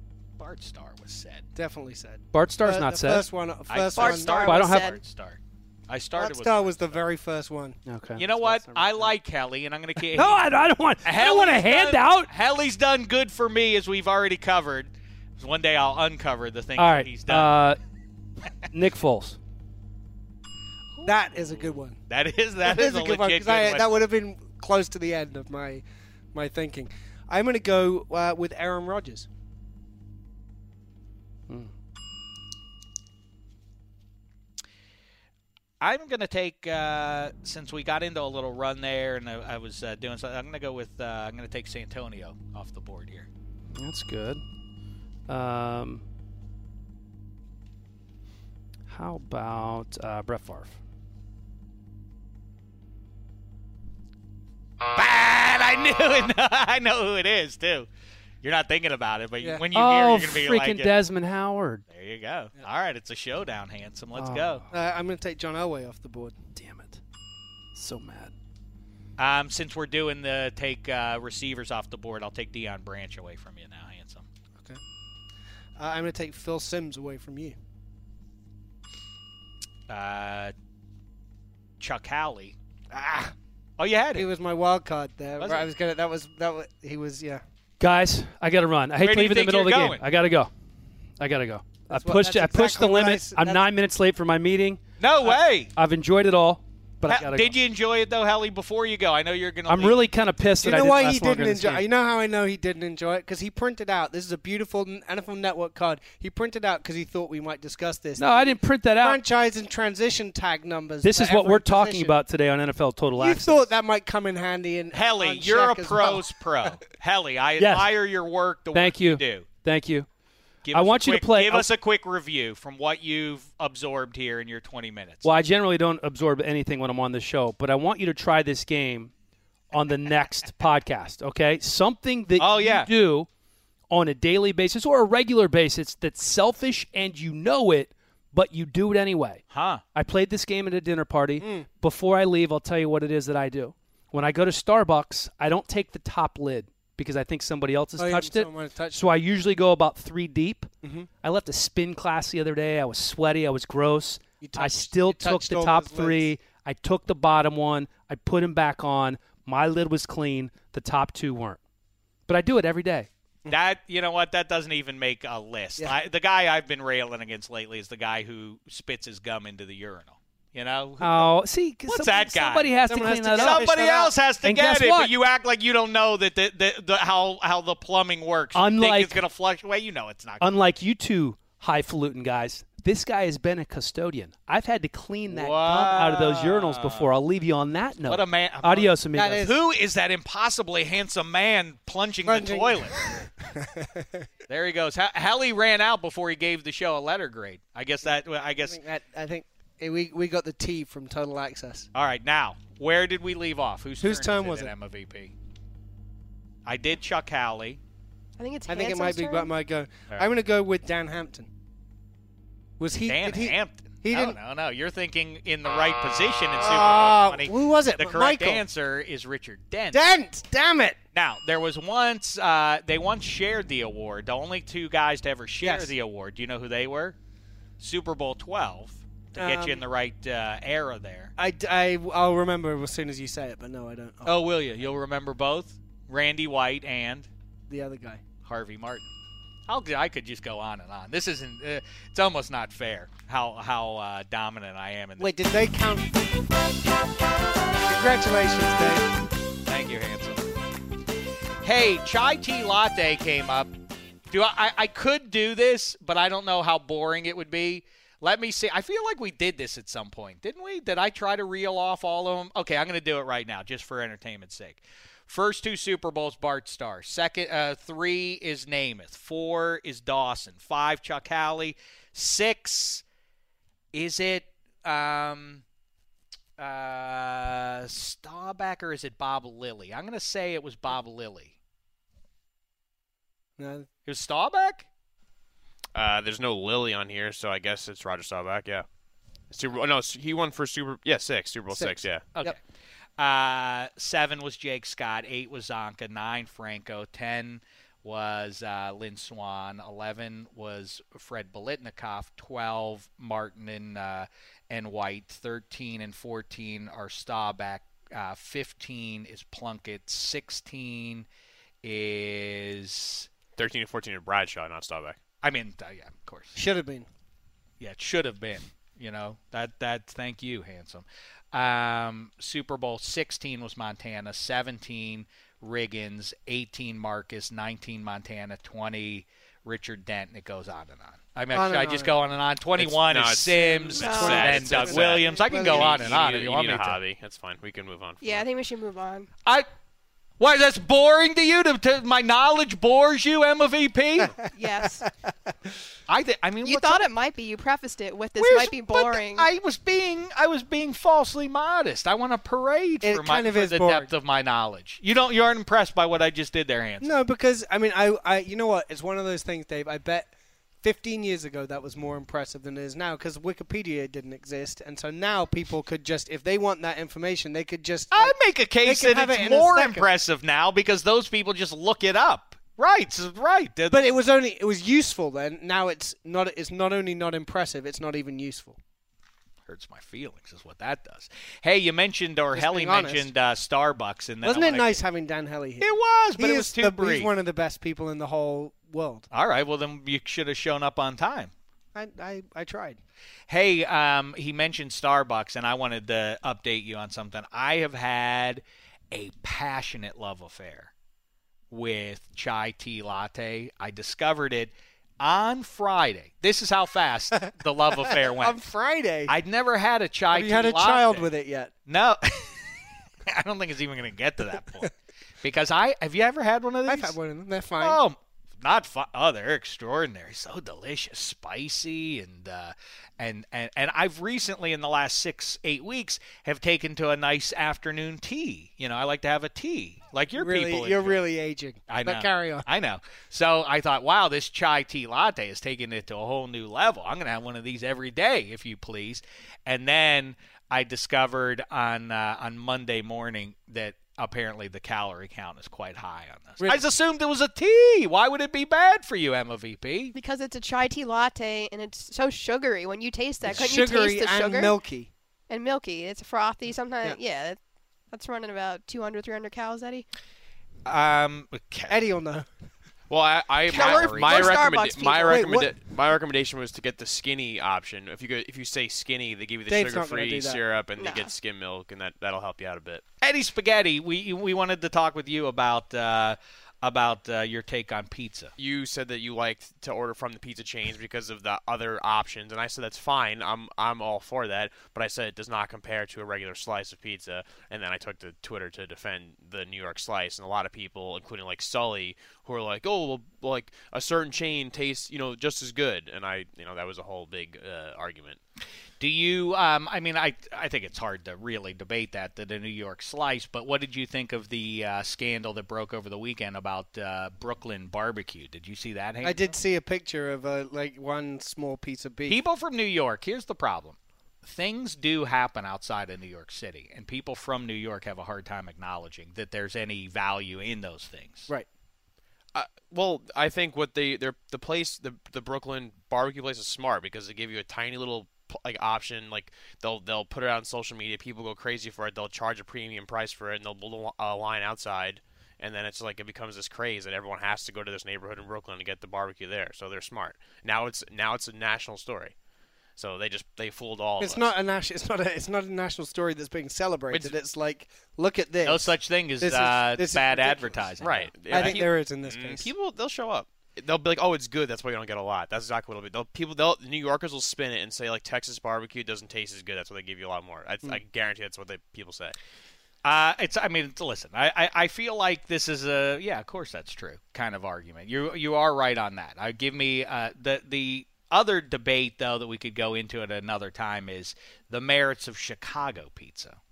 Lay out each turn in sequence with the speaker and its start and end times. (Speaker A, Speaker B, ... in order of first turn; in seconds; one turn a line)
Speaker A: 0.4-1.5
Speaker B: 1.6-4.5
Speaker C: 2.3-3.3
Speaker A: 3.7-7.0
Speaker D: 3.9-5.0
Speaker C: 4.5-5.0
Speaker B: 6.2-7.8
Speaker C: 7.9-9.1
Speaker A: 8.2-10.4
Speaker C: 10.0-12.3
Speaker A: 11.0-17.5
Speaker C: 16.8-17.8
Speaker C: 18.7-19.4
Speaker A: 20.9-24.1
Speaker B: 21.0-22.0
Speaker B: 22.6-29.3
Speaker A: 35.8-43.3
Speaker C: 43.7-44.4
Speaker C: 45.3-46.0
Speaker C: 48.9-50.8
Speaker A: 54.9-57.9
Speaker A: 58.4-60.9
Speaker C: 59.7-61.8
Speaker A: 61.9-64.6
Speaker C: 64.2-64.7
Speaker B: 64.7-66.4
Speaker C: 66.6-67.0
Speaker C: 67.8-68.3
Speaker A: 69.2-74.3
Speaker B: 75.8-77.6
Speaker A: 79.9-80.5
Speaker A: 81.8-82.5
Speaker B: 82.9-83.3
Speaker A: 83.8-84.3
Speaker B: 84.2-87.4
Speaker A: 85.4-85.7
Speaker C: 87.8-90.5
Speaker A: 89.0-90.0
Speaker C: 91.2-97.5
Speaker B: 91.9-93.6
Speaker A: 95.0-95.7
Speaker A: 97.1-100.0
Speaker C: 99.7-101.8
Speaker B: 100.6-112.2
Speaker C: 108.2-109.2
Speaker C: 111.0-113.6
Speaker B: 113.2-116.8
Speaker A: 114.9-119.5
Speaker C: 117.6-117.9
Speaker C: 118.7-120.1
Speaker A: 120.6-125.3
Speaker C: 120.7-121.7
Speaker C: 125.2-129.1
Speaker C: 129.7-133.3
Speaker A: 132.4-132.9
Speaker C: 133.9-139.4
Speaker A: 139.5-139.8
Speaker C: 139.9-150.7
Speaker B: 141.4-141.7
Speaker B: 148.0-149.0
Speaker B: 150.8-151.1
Speaker C: 151.2-161.6
Speaker B: 154.4-156.3
Speaker C: 162.3-163.1
Speaker A: 163.5-171.3
Speaker C: 171.0-173.7
Speaker A: 171.9-180.5
Speaker B: 172.9-174.1
Speaker C: 174.4-175.1
Speaker C: 178.6-179.2
Speaker C: 180.4-189.4
Speaker A: 185.3-187.1
Speaker A: 188.1-193.3
Speaker B: 189.2-189.6
Speaker B: 192.3-194.3
Speaker A: 194.5-198.8
Speaker B: 198.1-201.9
Speaker A: 201.9-205.3
Speaker B: 204.0-204.7
Speaker A: 206.7-207.8
Speaker D: 208.4-209.5
Speaker B: 208.7-211.5
Speaker B: 212.8-214.4
Speaker A: 213.1-220.1
Speaker B: 216.6-218.6
Speaker B: 219.9-221.0
Speaker A: 221.1-227.2
Speaker B: 225.6-225.9
Speaker A: 227.8-231.3
Speaker B: 229.4-229.8
Speaker B: 231.4-234.4
Speaker A: 234.2-237.3
Speaker B: 237.7-238.2
Speaker A: 238.4-239.1
Speaker A: 239.7-245.3
Speaker B: 245.2-246.2
Speaker B: 247.9-249.1
Speaker A: 249.7-250.5
Speaker A: 251.6-253.7
Speaker A: 254.3-273.0
Speaker A: 273.9-275.6
Speaker A: 276.6-281.6
Speaker B: 283.6-283.9
Speaker A: 284.1-284.9
Speaker E: 285.9-288.9
Speaker E: 289.5-292.3
Speaker B: 291.7-292.6
Speaker A: 293.2-311.3
Speaker A: 311.8-313.3
Speaker E: 313.6-315.2
Speaker A: 315.4-316.6
Speaker B: 316.6-317.1
Speaker A: 317.8-337.0
Speaker B: 331.5-332.1
Speaker E: 332.8-338.4
Speaker B: 333.6-336.2
Speaker D: 334.0-334.4
Speaker D: 338.2-339.3
Speaker A: 340.4-344.4
Speaker D: 344.5-345.0
Speaker A: 346.1-347.1
Speaker D: 346.6-349.5
Speaker A: 348.4-357.1
Speaker B: 353.0-354.1
Speaker B: 357.0-360.3
Speaker B: 360.8-370.1
Speaker A: 368.1-374.1
Speaker B: 373.9-378.8
Speaker A: 379.7-385.0
Speaker B: 382.6-383.3
Speaker B: 384.4-389.3
Speaker A: 385.8-387.3
Speaker A: 389.3-391.5
Speaker B: 391.9-393.0
Speaker A: 393.5-400.9
Speaker A: 401.7-408.6
Speaker B: 408.1-409.3
Speaker A: 409.3-411.3
Speaker B: 410.3-411.7
Speaker A: 411.9-412.8
Speaker A: 413.3-414.9
Speaker A: 415.4-417.2
Speaker B: 416.9-418.0
Speaker A: 417.8-431.2
Speaker B: 430.4-432.6
Speaker A: 431.9-450.1
Speaker D: 450.1-454.7
Speaker B: 453.4-455.1
Speaker D: 455.5-457.6
Speaker D: 458.1-460.1
Speaker A: 460.9-462.0
Speaker B: 461.9-462.5
Speaker E: 463.1-473.0
Speaker A: 463.7-464.8
Speaker D: 463.7-465.4
Speaker B: 465.3-465.7
Speaker B: 469.7-470.6
Speaker D: 471.0-471.3
Speaker A: 473.2-478.5
Speaker E: 478.6-498.4
Speaker A: 499.0-509.5
Speaker B: 509.2-512.4
Speaker A: 512.3-521.5
Speaker E: 522.5-542.3
Speaker E: 543.0-544.5
Speaker B: 544.2-551.0
Speaker A: 548.6-551.8
Speaker E: 551.0-562.4
Speaker B: 551.5-552.7
Speaker A: 563.0-576.6